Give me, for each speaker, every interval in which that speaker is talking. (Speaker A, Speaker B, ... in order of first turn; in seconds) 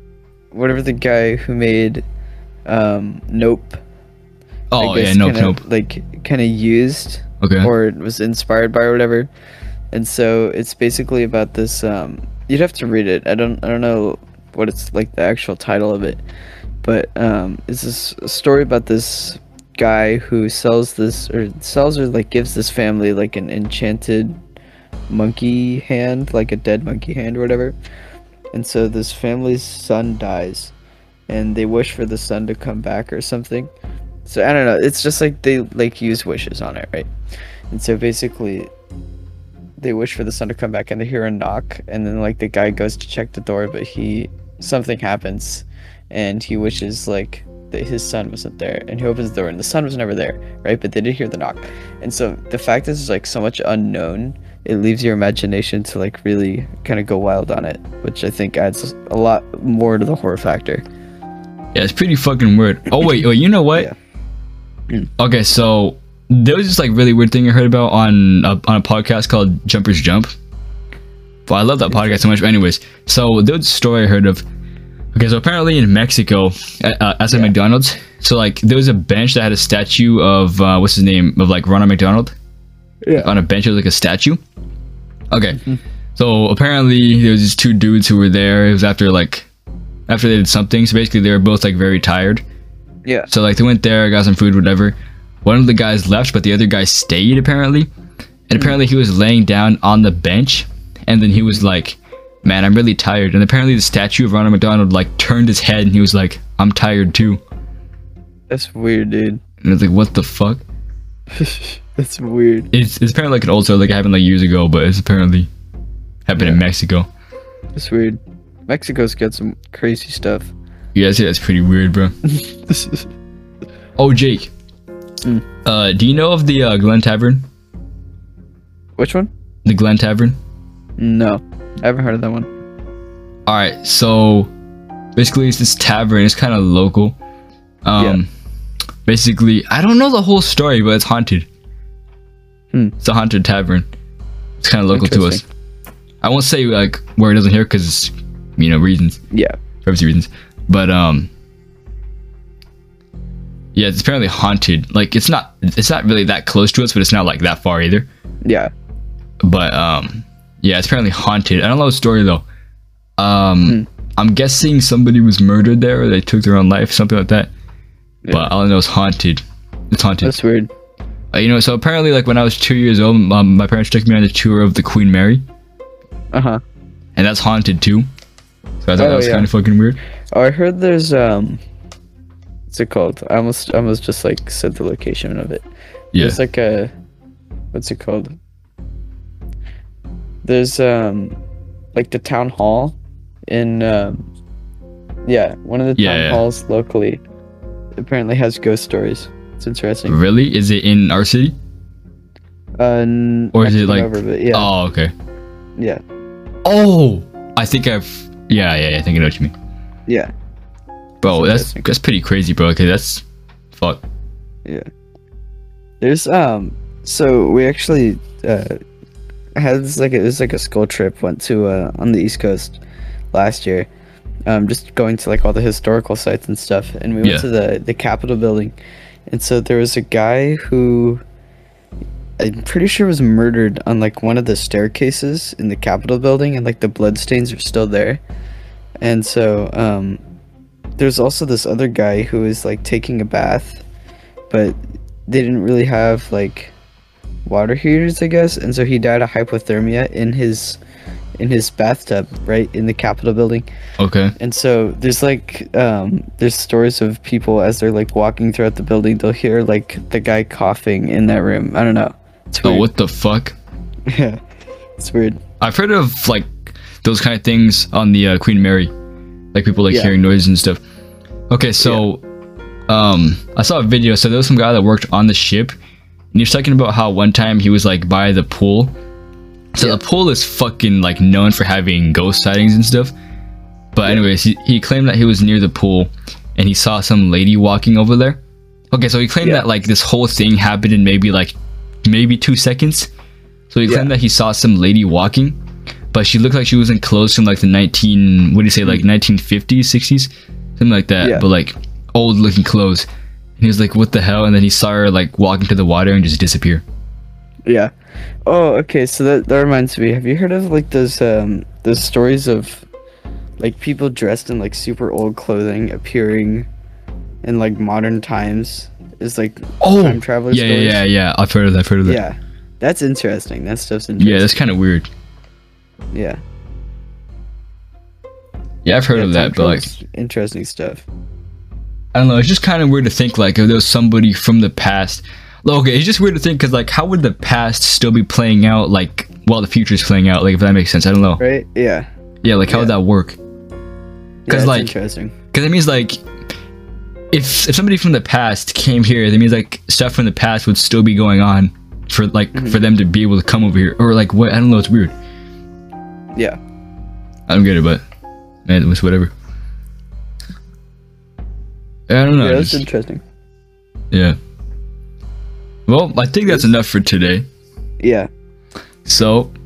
Speaker A: 0.5-2.0, 2.7-3.8, 4.8-9.3, 9.9-16.2, 16.8-24.4, 25.1-27.8, 28.5-30.7, 31.3-33.7, 34.3-37.1, 37.7-38.7, 39.8-60.8, 71.9-72.2, 83.0-83.3, 108.5-109.4, 111.3-112.7, 116.3-116.6, 117.8-120.5, 122.2-123.1, 129.0-129.3, 131.0-132.5, 144.9-145.4, 149.3-149.6, 158.4-158.7, 168.2-168.5, 170.2-170.7, 176.3-176.6, 179.0-179.5, 180.3-181.6, 182.7-185.7, 186.2-186.9, 187.7-188.3, 190.4-191.4, 191.9-193.0, 193.5-194.3, 195.2-197.2, 198.0-200.2, 202.8-204.7, 211.2-211.9, 216.0-218.8, 219.6-222.8, 223.3-223.9, 224.5-228.8, 229.3-231.2, 232.4-238.2, 239.0-240.2, 241.0-243.8, 244.5-246.7, 247.5-250.8, 251.4-253.7, 254.4-262.9, 264.1-264.4, 265.0-265.4, 269.9-270.1, 301.2-301.5, 307.7-307.9, 308.5-312.9, 313.6-316.7, 317.4-321.1, 322.1-324.6, 326.1-326.4, 329.1-331.1, 341.4-342.1, 342.7-342.9, 344.5-345.3, 352.5-352.8, 362.4-363.2, 368.0-368.3
Speaker B: 4.7-5.6, 7.4-7.7, 61.7-63.9, 65.2-70.3, 71.5-74.4, 75.1-82.3, 83.2-84.4, 85.3-85.7, 86.2-89.5, 90.1-92.4, 93.3-97.9, 98.5-107.4, 109.6-110.6, 112.7-115.5, 116.3-117.1, 121.0-122.2, 124.0-124.5, 125.7-127.5, 129.7-130.4, 133.5-134.5, 135.2-137.2, 137.8-138.3, 139.1-141.5, 143.0-143.9, 144.6-145.4, 146.2-149.2, 149.8-151.3, 153.7-158.1, 159.4-162.4, 163.2-167.5, 168.3-170.3, 171.3-175.4, 177.2-178.1, 178.8-180.0, 186.1-186.4, 196.0-196.4, 200.1-201.6, 203.5-205.1, 206.7-209.5, 211.2-214.0, 254.0-254.3, 262.6-263.6, 265.6-268.9, 269.5-270.8, 271.5-272.2, 272.9-275.8, 276.3-278.9, 279.8-283.1, 283.9-288.4, 288.9-293.1, 293.7-295.6, 296.1-303.1, 303.6-306.8, 319.8-322.2, 324.2-325.1, 328.8-329.9, 332.1-341.4, 342.4-343.4, 344.5-344.9, 345.5-346.2, 347.3-355.1, 357.5-358.0, 358.7-359.3, 362.1-362.8, 364.1-364.4, 365.9-367.5, 369.1-369.5